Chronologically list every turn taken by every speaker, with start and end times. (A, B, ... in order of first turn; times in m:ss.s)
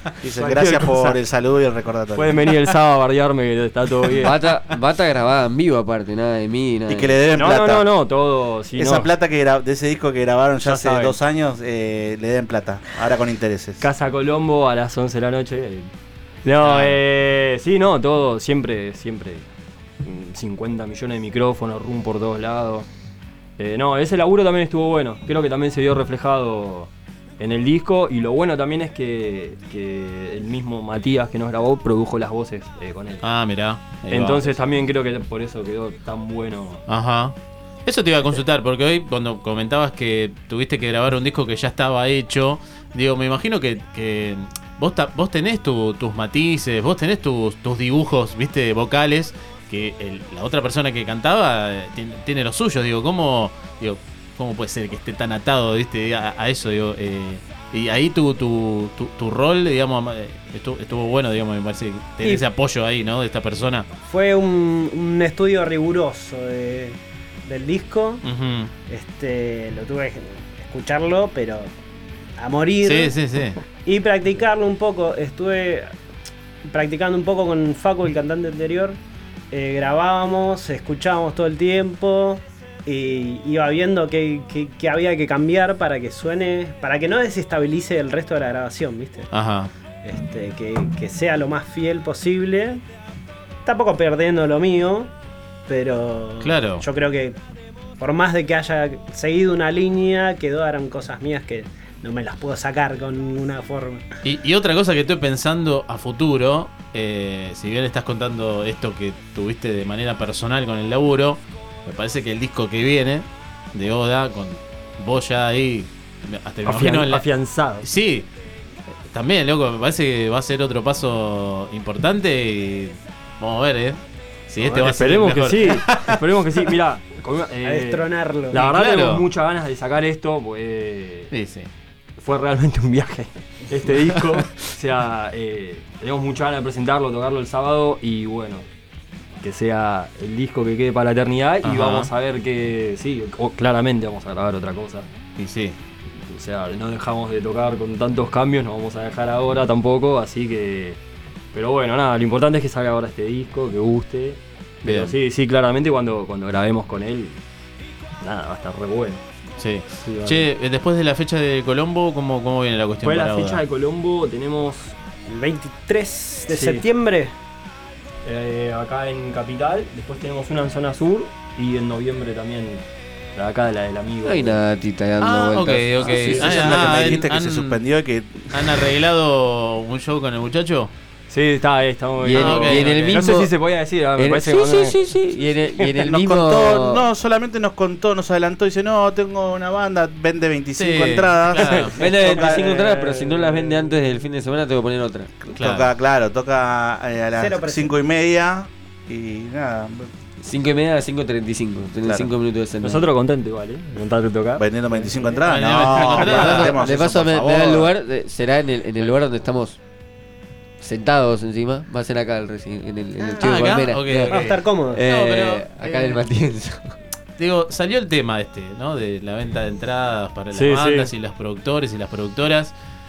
0:00.2-0:02.2 A
0:00.4-0:01.2 B
0:02.1-0:04.3 B
0:04.2-0:07.2 C
0:06.9-0:07.8 A
0:07.3-0:09.1 B
0:08.8-0:13.8 A
0:10.6-0:11.2 B
0:13.8-0:15.9 B
0:16.4-0:19.5 B
0:20.0-0:22.9 B
0:23.6-0:33.2 B
0:33.2-0:34.6 D
0:34.1-0:36.8 B
0:36.9-1:03.9 D
1:04.0-1:08.2 E
1:08.2-1:08.7 D
1:08.9-1:11.7 E
1:12.4-1:13.2 E
1:12.8-1:13.6 D
1:13.8-1:15.8 E
1:16.6-1:19.0 E
1:19.5-1:29.3 E
1:29.3-1:29.7 D
1:30.0-1:32.8 E
1:33.6-1:35.1 E
1:35.7-1:37.4 E
1:36.4-1:36.8 D
1:38.0-1:44.0 E
1:44.2-1:57.2 D
1:56.6-1:57.9 B
1:57.8-1:58.3 D
1:59.1-2:06.2 D
2:04.6-2:11.3 B
2:07.6-2:08.6 E
2:08.5-2:09.2 D
2:11.3-2:11.7 D
2:12.2-2:18.6 B
2:19.4-2:25.1 B
2:21.6-2:22.1 D
2:25.4-2:25.8 D
2:26.3-2:31.0 B
2:31.5-2:37.4 B
2:34.8-2:35.1 D
2:38.2-2:39.2 B
2:39.6-2:43.6 D
2:40.0-2:40.5 B
2:43.0-2:45.0 B
2:45.2-2:47.3 E
2:46.5-2:46.8 B
2:48.2-2:54.6 B
2:54.2-2:56.7 C
2:55.2-2:57.8 D
2:56.0-2:57.1 B
2:56.4-2:58.5 A
2:58.5-3:00.9 D
3:01.3-3:05.0 B
3:02.2-3:03.5 C
3:02.3-3:03.3 D
3:04.2-3:07.1 C
3:05.6-3:05.9 B
3:06.1-3:12.6 A
3:10.8-3:12.0 D
3:11.6-3:14.0 B
3:12.0-3:15.3 C
3:15.5-3:15.9 D
3:15.6-3:20.1 A
3:17.3-3:18.0 E
3:20.4-3:23.1 C
3:22.8-3:25.4 B
3:24.6-3:27.8 A
3:25.4-3:26.7 D
3:26.1-3:26.6 B
3:26.2-3:26.8 E
3:26.5-3:29.8 C
3:30.8-3:37.0 C
3:33.2-3:33.7 E
3:33.4-3:36.2 D
3:34.3-3:35.0 E
3:37.4-3:42.7 D
3:40.5-3:41.1 B